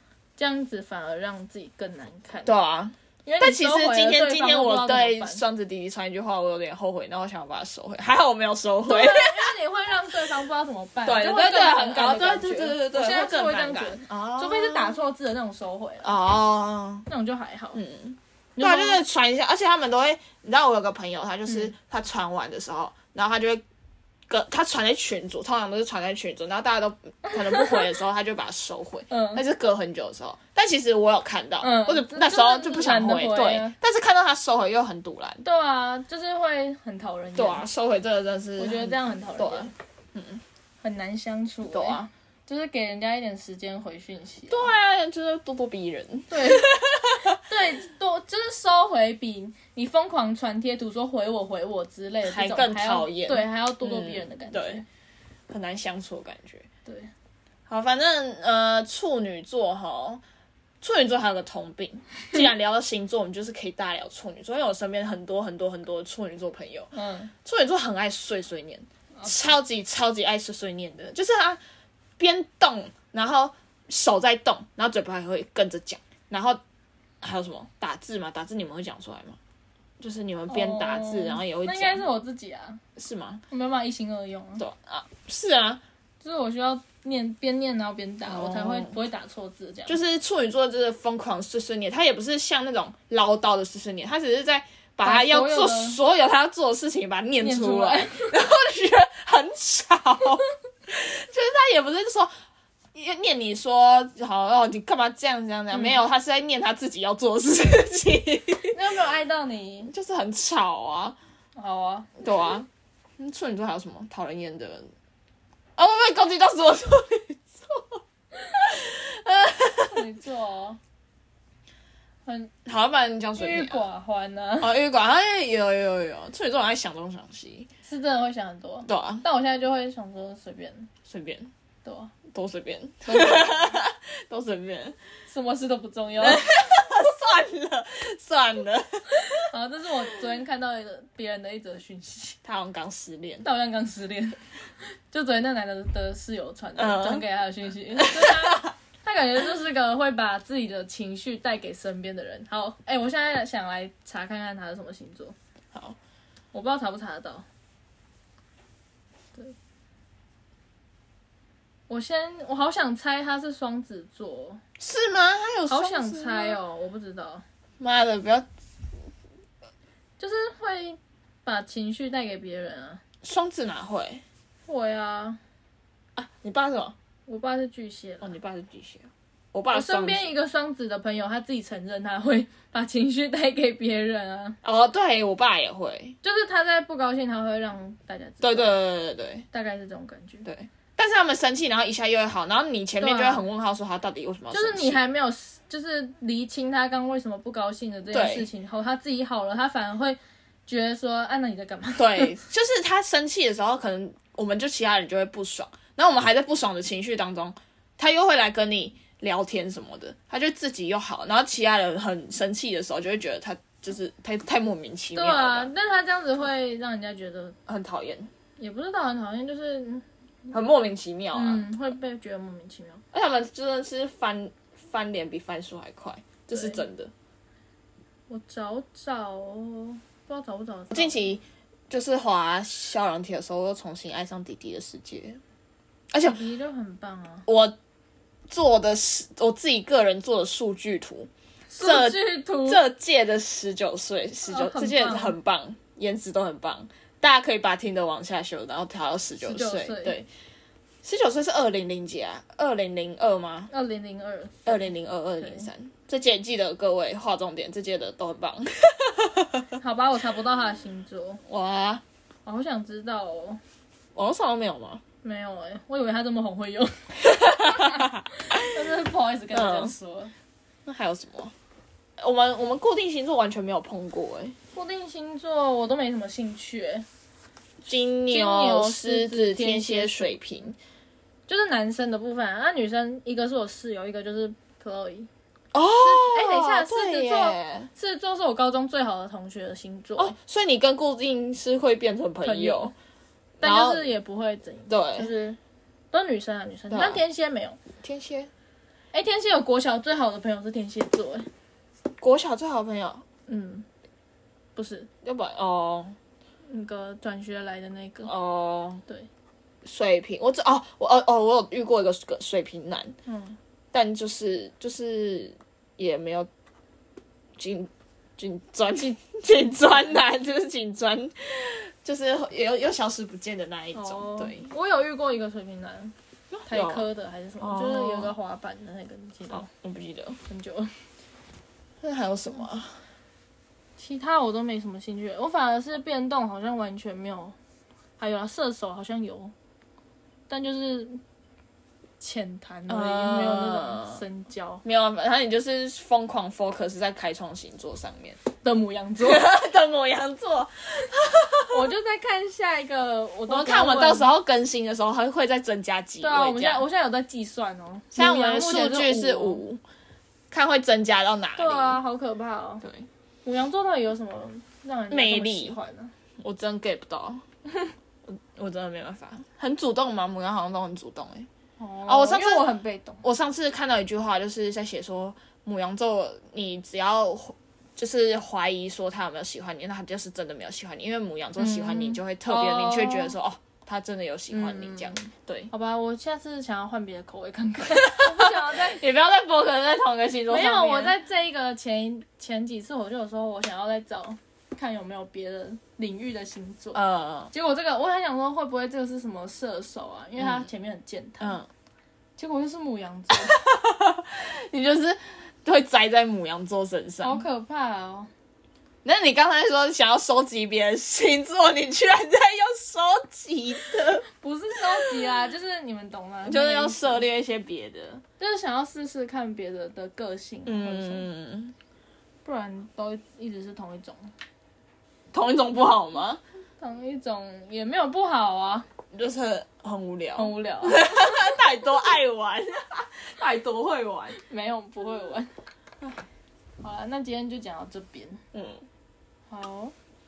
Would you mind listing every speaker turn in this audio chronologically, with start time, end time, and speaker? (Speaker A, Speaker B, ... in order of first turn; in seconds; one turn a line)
Speaker A: 0.4-2.5
Speaker B: 2.4-9.5
Speaker A: 3.2-5.4
Speaker A: 8.8-16.1
Speaker B: 11.0-15.0
Speaker B: 16.0-17.1
Speaker A: 17.1-17.8
Speaker B: 17.7-23.6
Speaker A: 18.6-19.0
Speaker A: 21.5-21.7
Speaker B: 24.3-35.4
Speaker A: 27.5-27.8
Speaker A: 29.1-29.4
Speaker A: 31.6-33.7
Speaker A: 35.4-37.6
Speaker B: 37.4-40.4
Speaker A: 38.6-39.7
Speaker A: 40.8-44.7
Speaker B: 41.7-42.1
Speaker B: 44.5-47.4
Speaker A: 46.3-46.8
Speaker A: 47.3-54.8
Speaker B: 52.2-54.8
Speaker B: 55.5-56.7
Speaker A: 56.8-57.1
Speaker B: 57.7-60.2
Speaker B: 60.8-71.6
Speaker A: 66.9-67.3
Speaker B: 72.2-76.6
Speaker B: 77.2-79.4
Speaker B: 80.0-82.0
Speaker A: 80.5-82.8
Speaker B: 83.0-83.4
Speaker A: 83.5-84.6
Speaker B: 84.6-85.8
Speaker A: 86.2-90.0
Speaker B: 88.2-88.9
Speaker B: 89.9-102.3
Speaker A: 95.0-96.0
Speaker A: 97.4-98.3
Speaker B: 102.9-108.8
Speaker A: 105.7-106.0
Speaker A: 108.7-109.9
Speaker B: 109.9-111.2
Speaker A: 111.5-112.1
Speaker B: 112.2-112.7
Speaker B: 113.2-114.9
Speaker B: 115.8-118.0
Speaker B: 118.5-120.0
Speaker A: 119.9-120.8
Speaker A: 122.2-122.5
Speaker B: 122.6-123.8
Speaker A: 123.4-124.7
Speaker B: 124.6-127.7
Speaker A: 127.8-130.9
Speaker B: 128.8-129.2
Speaker B: 131.1-131.5
Speaker A: 131.8-132.2
Speaker B: 132.3-135.0
Speaker A: 133.1-133.8
Speaker A: 135.3-136.5
Speaker B: 136.2-139.5
Speaker A: 139.2-142.4
Speaker B: 142.4-143.4
Speaker A: 143.4-144.4
Speaker A: 145.1-155.3
Speaker B: 146.8-147.2
Speaker B: 148.0-148.7
Speaker A: 156.5-157.4
Speaker A: 161.9-164.6
Speaker B: 164.8-166.6
Speaker A: 165.7-167.4
Speaker B: 167.8-168.5
Speaker A: 170.2-173.0
Speaker B: 173.2-174.2
Speaker A: 174.7-175.4
Speaker B: 176.2-176.9
Speaker A: 177.3-178.3
Speaker B: 178.2-180.3
Speaker A: 179.7-184.6
Speaker B: 184.6-186.2
Speaker A: 186.2-188.7
Speaker B: 188.4-189.4
Speaker A: 189.5-190.5
Speaker B: 190.4-195.0
Speaker A: 193.0-193.4
Speaker A: 194.5-202.3
Speaker B: 198.1-198.5
Speaker B: 202.0-215.7
Speaker A: 215.1-217.6
Speaker B: 217.7-218.3
Speaker A: 218.6-220.0
Speaker B: 220.5-221.7
Speaker A: 221.3-223.0
Speaker B: 223.1-227.1
Speaker A: 226.5-226.8
Speaker A: 228.3-231.3
Speaker B: 230.9-235.4
Speaker B: 236.1-236.4
Speaker A: 236.2-237.5
Speaker B: 237.5-237.8
Speaker B: 238.5-250.3
Speaker A: 241.7-242.8
Speaker A: 244.5-245.3
Speaker A: 249.4-250.2
Speaker B: 251.0-253.7
Speaker A: 253.7-254.9
Speaker B: 254.7-259.6
Speaker A: 255.4-255.7
Speaker A: 259.8-261.4
Speaker B: 261.5-262.0
Speaker A: 262.4-263.6
Speaker B: 264.1-265.0
Speaker A: 265.2-270.3
Speaker B: 267.2-268.8
Speaker B: 269.5-269.9
Speaker B: 270.9-271.5
Speaker B: 272.2-274.6
Speaker A: 274.7-277.1
Speaker B: 277.9-280.8
Speaker A: 278.3-280.4
Speaker A: 281.5-285.3
Speaker B: 285.7-287.9
Speaker A: 286.0-290.3
Speaker B: 290.2-292.9
Speaker A: 292.4-292.9
Speaker B: 293.6-294.1
Speaker A: 293.6-295.6
Speaker B: 294.9-295.3
Speaker A: 296.1-297.8
Speaker B: 296.9-297.2
Speaker B: 298.0-298.5
Speaker A: 299.1-301.5
Speaker B: 302.2-303.2
Speaker A: 303.5-303.9
Speaker A: 304.8-305.1
Speaker B: 305.2-306.1
Speaker A: 306.7-308.3
Speaker B: 308.2-309.0
Speaker B: 309.8-313.1
Speaker A: 313.3-313.6
Speaker B: 313.9-316.5
Speaker B: 317.6-324.7
Speaker A: 323.9-326.1
Speaker B: 326.5-327.1
Speaker A: 326.7-329.7
Speaker B: 327.6-328.3
Speaker B: 329.5-330.4
Speaker A: 330.5-330.9
Speaker B: 332.0-333.0
Speaker A: 334.0-337.6
Speaker A: 338.2-339.5
Speaker A: 340.5-341.2
Speaker A: 342.2-344.8
Speaker B: 342.9-344.2
Speaker B: 344.8-348.4
Speaker A: 348.6-349.4
Speaker B: 349.2-351.9
Speaker A: 351.7-354.3
Speaker B: 353.5-356.8
Speaker A: 356.2-359.6
Speaker B: 358.1-359.8
Speaker B: 360.5-362.0
Speaker A: 361.6-362.8
Speaker B: 362.8-363.1
Speaker A: 363.4-366.1
Speaker B: 365.1-365.8
Speaker B: 366.4-367.4
Speaker B: 368.2-371.5
Speaker A: 371.8-373.2
Speaker B: 372.1-372.6
Speaker B: 373.2-385.7
Speaker A: 381.6-383.3
Speaker A: 384.5-389.0
Speaker B: 387.8-391.1
Speaker A: 390.5-397.0
Speaker B: 396.9-397.5
Speaker A: 397.5-401.6
Speaker B: 400.4-400.7
Speaker B: 401.4-401.7
Speaker A: 402.4-403.6
Speaker B: 403.3-407.4
Speaker A: 407.2-408.3
Speaker B: 409.0-414.2
Speaker A: 414.4-417.3
Speaker B: 415.0-415.2
Speaker B: 416.4-418.2
Speaker A: 418.4-421.3
Speaker B: 420.6-421.7
Speaker A: 422.4-424.3
Speaker B: 425.3-426.4
Speaker A: 426.8-428.9
Speaker B: 429.1-434.4
Speaker A: 430.4-431.4
Speaker A: 434.3-435.5
Speaker A: 436.8-438.4
Speaker B: 438.5-438.8
Speaker A: 439.5-439.9